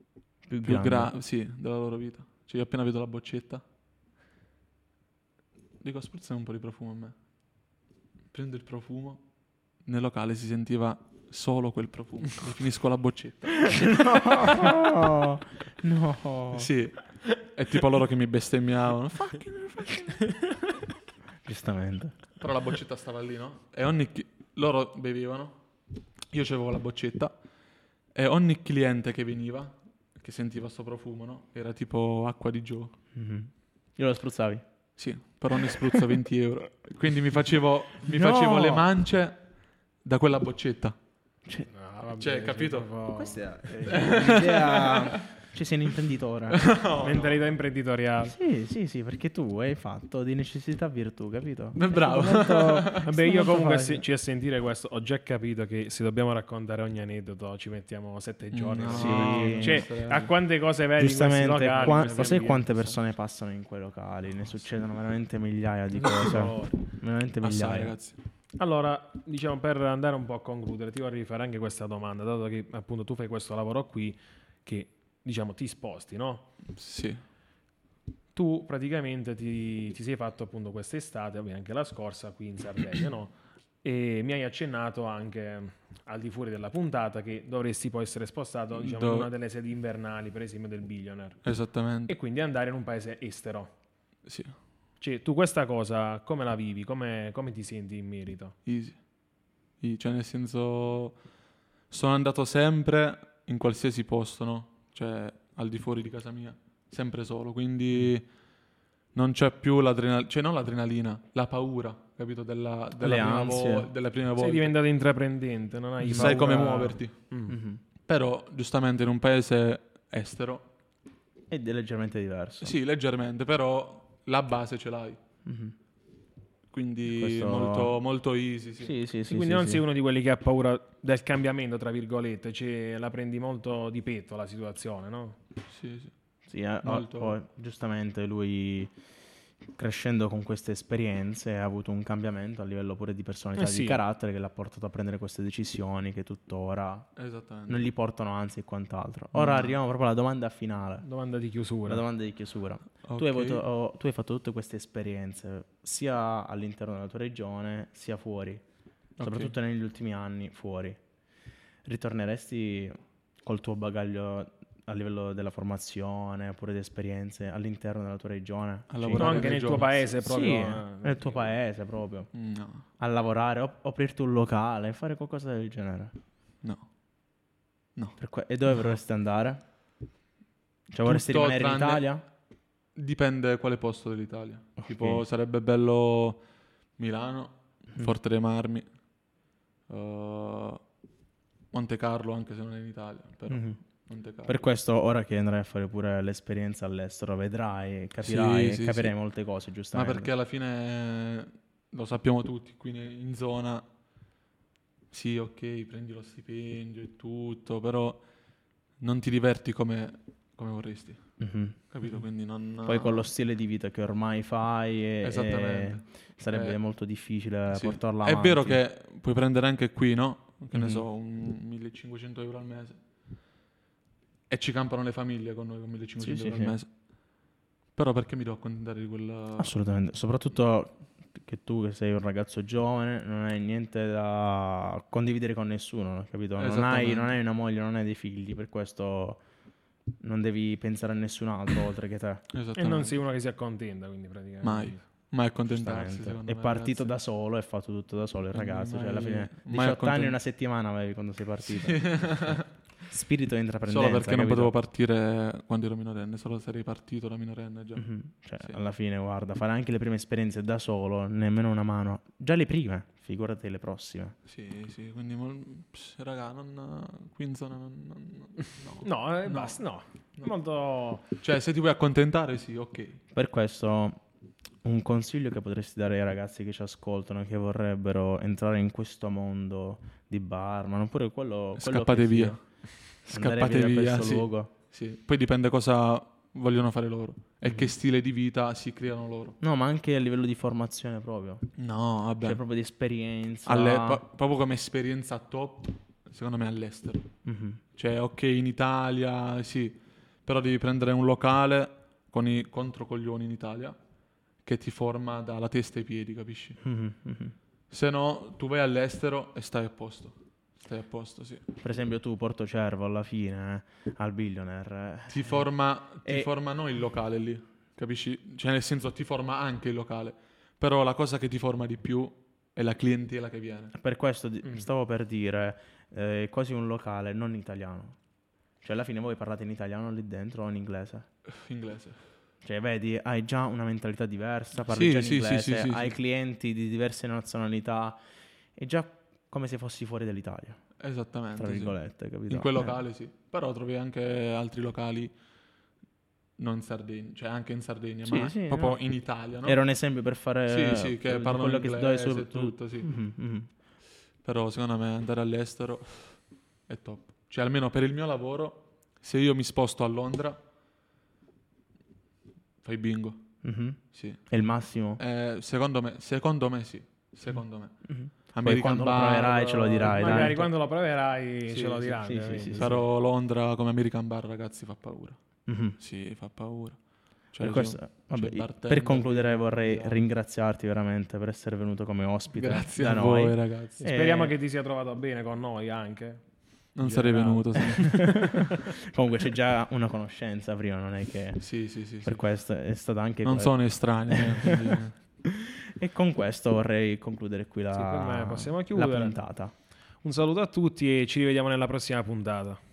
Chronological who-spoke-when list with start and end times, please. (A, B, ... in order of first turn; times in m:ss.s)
0:00.4-0:01.1 A
0:00.6-0:03.6 B
0:05.8-0:07.2 B
0:08.3-0:09.2 B
0:09.8-0:14.6 B
0:13.6-0:16.7 A
0:16.5-0:20.6 B
0:21.4-0:22.1 A
0:22.4-0:25.6 B
0:26.3-0:27.4 B
0:28.1-0:33.0 B
0:33.1-0:34.6 A
0:35.0-0:39.4 B
0:38.0-0:38.9 A
0:40.0-0:41.0 B
0:41.7-0:43.4 C
0:42.2-0:42.9 B
0:43.1-0:46.7 A
0:43.9-0:45.3 B
0:46.5-0:47.5 B
0:47.0-0:48.3 C
0:48.2-0:54.0 A
0:51.7-0:53.1 B
0:53.0-1:02.6 C
0:58.6-1:00.3 B
0:58.8-0:59.8 A
1:01.0-1:07.9 A
1:01.7-1:03.0 B
1:05.9-1:06.8 C
1:07.4-1:08.2 B
1:08.6-1:16.5 C
1:16.7-1:17.2 B
1:18.3-1:31.4 C
1:28.7-1:29.3 B
1:31.4-1:32.1 B
1:32.1-1:33.7 C
1:34.2-1:34.6 B
1:35.0-1:38.5 C
1:38.6-1:39.0 B
1:39.8-1:41.2 B
1:41.9-1:48.3 B
1:49.1-1:54.7 B
1:53.0-1:53.9 A
1:54.4-1:57.5 C
1:56.0-1:56.6 A
1:56.0-1:57.2 B
1:57.5-1:57.8 A
1:58.0-2:00.7 B
2:01.5-2:02.7 A
2:02.6-2:05.2 B
2:05.4-2:05.7 A
2:06.7-2:08.9 B
2:07.0-2:08.0 A
2:08.8-2:09.8 A
2:09.3-2:15.4 C
2:15.7-2:16.1 B
2:16.5-2:18.9 A
2:16.8-2:17.4 B
2:19.7-2:27.1 A
2:23.6-2:24.0 C
2:27.2-2:27.9 B
2:27.7-2:31.0 A
2:31.0-2:32.0 C
2:31.8-2:38.6 A
2:33.0-2:33.6 B
2:39.2-2:39.5 B
2:39.2-2:41.0 A
2:41.8-2:49.5 A
2:48.9-2:50.1 B
2:49.1-2:51.5 C
2:50.2-2:52.3 A
2:52.3-2:52.8 B
2:53.0-2:56.1 A
2:58.2-2:59.6 A
3:00.9-3:02.2 A
3:01.0-3:02.1 B
3:02.9-3:06.4 B
3:04.8-3:05.2 A
3:07.0-3:08.9 B
3:09.9-3:10.8 B
3:11.7-3:14.6 B
3:13.5-3:13.8 A
3:14.4-3:20.3 A
3:18.2-3:19.1 B
3:19.9-3:23.8 B
3:25.1-3:28.2 B
3:29.0-3:33.3 B
3:31.4-3:32.2 A
3:32.8-3:38.8 A
3:35.2-3:36.8 B
3:37.7-3:43.0 B
3:40.7-3:41.0 A
3:44.5-3:46.9 B
3:46.2-3:46.7 A
3:47.9-3:49.7 B
3:49.6-3:59.4 A
3:56.6-3:57.4 B
4:00.2-4:02.4 A
4:02.5-4:03.2 B
4:02.8-4:05.0 C
4:04.6-4:07.2 B
4:05.7-4:14.7 A
4:08.5-4:10.4 B
4:11.7-4:12.7 B
4:13.9-4:18.0 B
4:18.0-4:24.3 A
4:24.4-4:29.8 B
4:29.0-4:31.3 C
4:31.4-4:33.2 B
4:33.3-4:34.2 A
4:34.8-4:42.6 A
4:41.8-4:49.6 B
4:43.2-4:44.7 A
4:49.6-4:51.7 A
4:51.8-4:52.6 B
4:52.4-4:54.2 A
4:53.6-4:57.3 B
4:57.4-4:57.8 A
4:58.0-5:04.0 B
5:04.6-5:06.8 B
5:06.8-5:07.5 A
5:07.9-5:11.6 B
5:11.8-5:15.6 A
5:15.3-5:23.9 B
5:23.9-5:28.2 A
5:28.8-5:31.3 A
5:31.5-5:32.2 B
5:32.6-5:38.2 A
5:34.9-5:36.1 B
5:38.7-5:40.8 A
5:41.0-5:42.0 B
5:41.6-5:43.0 A
5:42.5-5:45.3 B
5:46.6-5:49.8 B
5:48.2-5:49.0 A
5:49.6-5:53.7 A
5:50.7-5:53.1 B
5:54.4-6:00.6 B
6:02.8-6:03.5 B
6:03.6-6:05.2 A
6:04.1-6:04.4 B
6:05.2-6:10.6 B
6:08.1-6:10.7 A
6:10.0-6:13.0 C
6:11.7-6:15.4 B
6:12.2-6:13.0 A
6:15.6-6:16.0 A
6:16.0-6:17.0 B
6:17.5-6:20.2 B
6:17.6-6:24.5 A
6:22.5-6:24.0 B
6:24.0-6:28.6 C
6:26.9-6:28.5 B
6:28.0-6:31.7 A
6:31.6-6:32.4 B
6:32.2-6:39.7 A
6:33.4-6:35.2 B
6:37.9-6:39.4 C
6:40.2-6:42.8 C